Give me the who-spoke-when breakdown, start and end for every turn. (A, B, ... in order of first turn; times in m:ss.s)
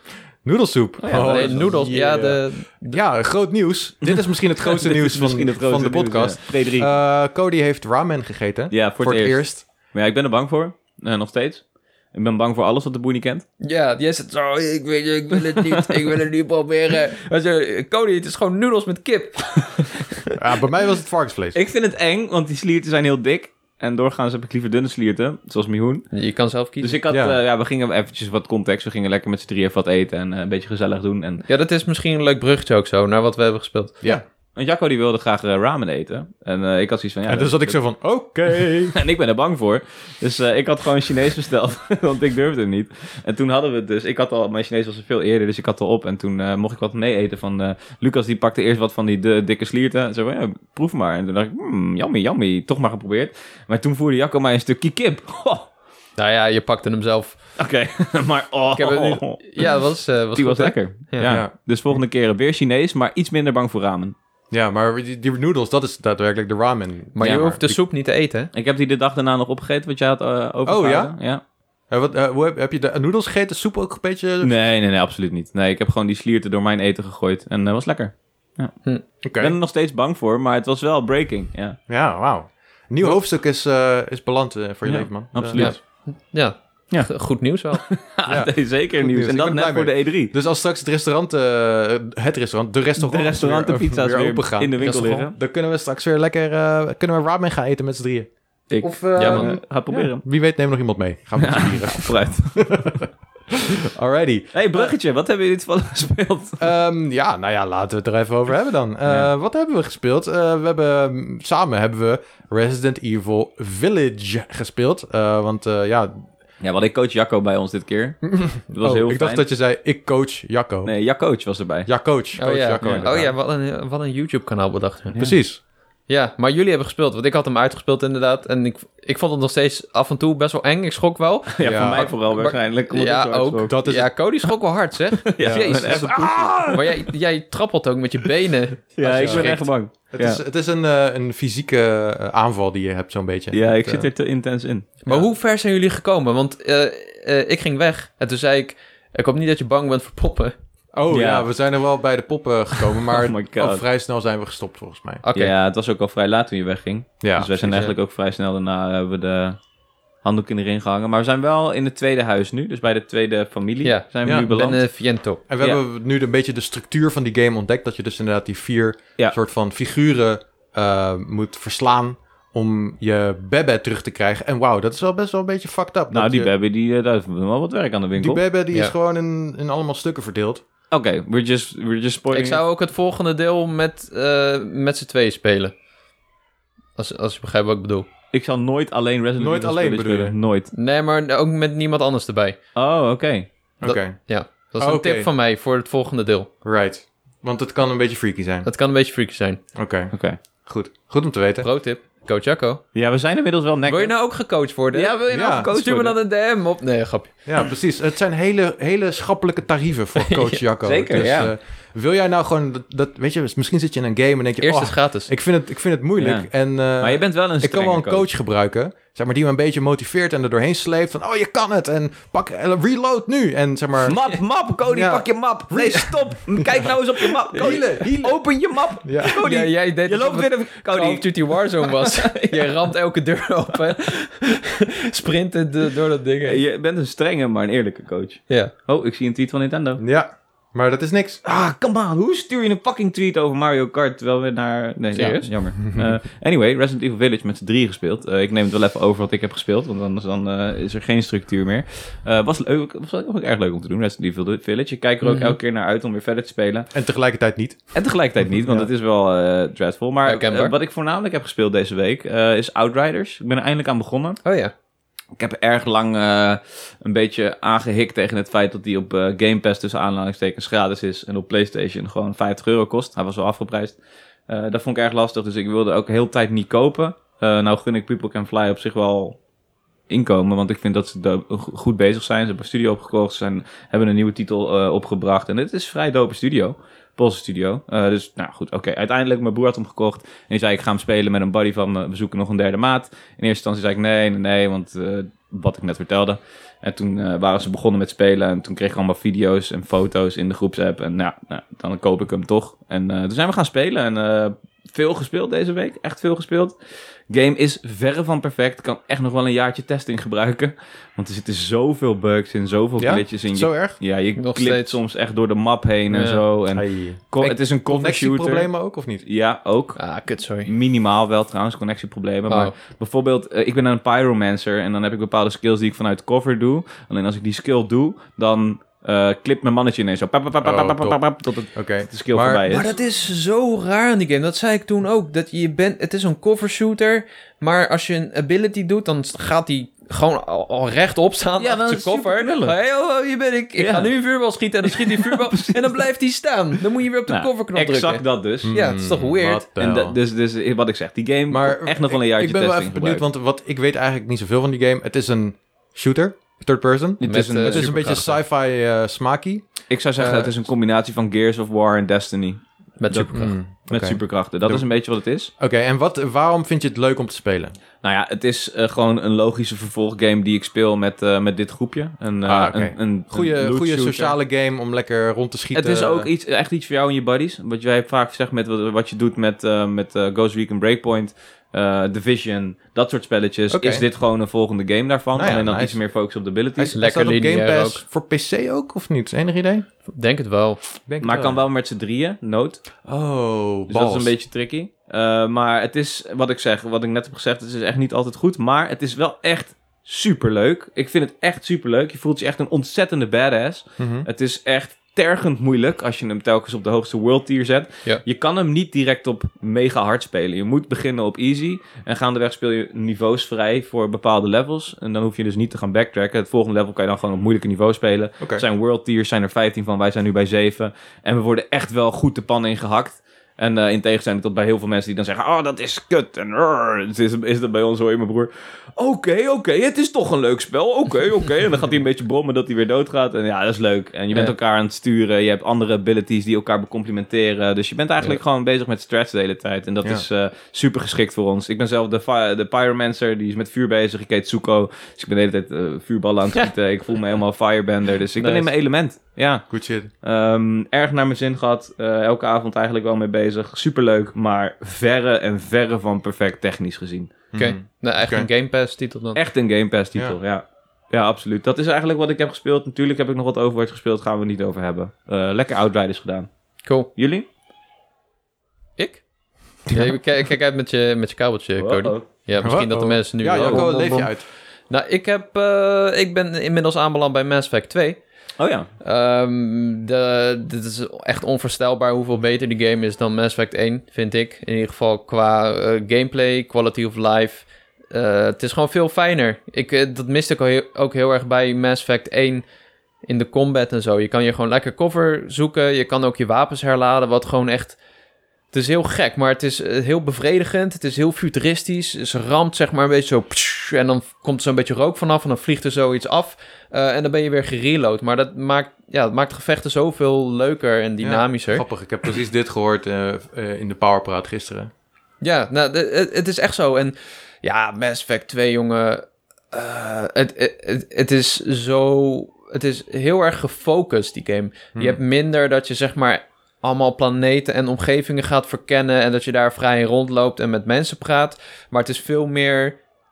0:00.4-0:09.6 A
0:01.0-0:01.8 B
0:01.1-0:03.0 C
0:04.0-0:06.9 B
0:08.7-0:13.4 B
0:13.6-0:20.3 C
0:15.6-0:15.9 B
0:20.4-0:21.6 A
0:21.5-0:26.1 B
0:26.1-0:27.0 C
0:26.8-0:31.4 B
0:27.1-0:27.4 A
0:31.5-0:34.1 C
0:34.6-0:37.8 B
0:37.3-0:39.0 A
0:38.9-0:55.7 B
0:56.2-0:57.4 C
0:57.6-0:59.8 B
0:58.8-1:01.4 C
1:00.4-1:04.2 B
1:01.2-1:01.5 A
1:04.5-1:07.8 A
1:07.2-1:08.5 C
1:07.2-1:07.6 B
1:08.5-1:11.4 B
1:10.6-1:11.1 A
1:11.9-1:14.6 A
1:14.4-1:18.8 B
1:19.2-1:19.6 A
1:19.4-1:21.8 B
1:21.9-1:25.7 A
1:24.8-1:25.8 B
1:25.6-1:27.8 C
1:27.7-1:30.3 B
1:28.3-1:38.3 A
1:33.0-1:35.4 B
1:34.8-1:35.3 C
1:38.7-1:40.2 B
1:38.8-1:44.9 A
1:39.2-1:39.6 C
1:41.4-1:43.1 B
1:44.5-1:46.6 B
1:46.6-1:56.3 A
1:56.6-1:59.4 B
1:58.2-2:01.0 A
2:00.8-2:01.9 B
2:01.8-2:03.3 A
2:02.4-2:05.4 C
2:02.8-2:03.1 B
2:05.2-2:05.6 A
2:06.1-2:19.7 C
2:11.5-2:13.8 B
2:11.6-2:12.1 A
2:13.7-2:14.1 A
2:15.3-2:16.8 B
2:15.4-2:16.7 A
2:19.0-2:20.4 B
2:19.1-2:24.1 A
2:23.5-2:24.9 B
2:25.0-2:30.6 C
2:30.9-2:35.2 A
2:31.1-2:31.5 B
2:33.0-2:33.8 B
2:35.2-2:35.5 C
2:35.4-2:39.6 B
2:37.2-2:37.9 A
2:40.2-2:44.8 B
2:43.8-2:45.4 C
2:44.2-2:44.6 A
2:45.5-2:56.5 A
2:56.1-2:58.4 B
2:58.2-3:00.6 A
3:00.9-3:02.6 B
3:02.3-3:05.7 C
3:07.0-3:08.1 C
3:08.3-3:10.7 B
3:09.4-3:10.4 A
3:10.7-3:12.6 C
3:12.8-3:13.5 B
3:13.8-3:14.2 A
3:13.8-3:16.5 C
3:14.8-3:15.3 A
3:16.6-3:18.7 A
3:18.6-3:19.6 C
3:19.8-3:21.7 A
3:20.1-3:20.4 B
3:21.6-3:22.8 C
3:23.0-3:24.2 B
3:23.9-3:27.3 C
3:24.9-3:26.2 B
3:25.3-3:25.7 A
3:27.5-3:44.2 A
3:30.2-3:30.6 C
3:30.8-3:31.5 B
3:34.6-3:35.3 C
3:36.2-3:38.3 B
3:44.0-3:52.9 B
3:44.9-3:49.4 A
3:49.3-3:56.6 C
3:56.4-4:00.0 B
4:00.0-4:01.4 A
4:01.4-4:16.9 B
4:05.1-4:05.5 C
4:15.2-4:15.6 C
4:16.9-4:17.9 A
4:17.9-4:24.4 B
4:20.2-4:20.7 C
4:24.4-4:24.7 C
4:25.4-4:39.4 B
4:40.1-5:06.8 B
5:07.3-5:18.7 B
5:13.0-5:14.0 A
5:14.4-5:15.0 C
5:16.1-5:16.4 C
5:16.7-5:19.2 A
5:19.2-5:20.0 B
5:20.0-5:20.7 C
5:20.6-5:32.9 B
5:22.5-5:22.7 C
5:30.6-5:31.2 A
5:31.7-5:32.8 A
5:32.7-5:49.7 C
5:41.6-5:42.8 B
5:43.8-5:44.1 B
5:44.9-5:46.0 B
5:47.3-5:48.7 B
5:48.6-5:50.2 A
5:49.8-5:53.2 B
5:51.5-6:00.6 A
5:57.2-5:57.9 B
5:57.2-5:58.4 C
5:59.9-6:05.5 B
6:03.0-6:03.5 C
6:03.3-6:04.9 A
6:05.6-6:07.8 A
6:08.0-6:14.4 B
6:12.4-6:16.3 A
6:15.7-6:27.0 B
6:23.7-6:24.0 A
6:25.3-6:26.0 A
6:26.8-6:29.9 A
6:27.0-6:28.0 C
6:30.1-6:30.8 C
6:31.1-6:31.6 A
6:31.2-6:32.8 B
6:33.0-6:34.3 A
6:33.9-7:29.7 B
6:44.0-6:44.3 A
6:58.4-6:58.6 A
7:28.4-7:28.7 C
7:29.7-7:30.1 A
7:30.2-7:37.3 B
7:37.5-7:38.5 A
7:37.6-7:39.4 C
7:39.4-7:46.5 B
7:47.2-7:47.4 B
7:49.0-7:49.2 C
7:49.9-7:54.4 C
7:51.8-7:52.3 B
7:52.6-7:54.4 A
7:53.5-7:53.9 B
7:54.9-7:58.2 C
7:58.6-7:58.9 B
7:59.0-8:12.6 C
8:13.3-8:18.0 C
8:18.7-8:31.8 C
8:31.2-8:34.9 A
8:35.4-8:53.0 C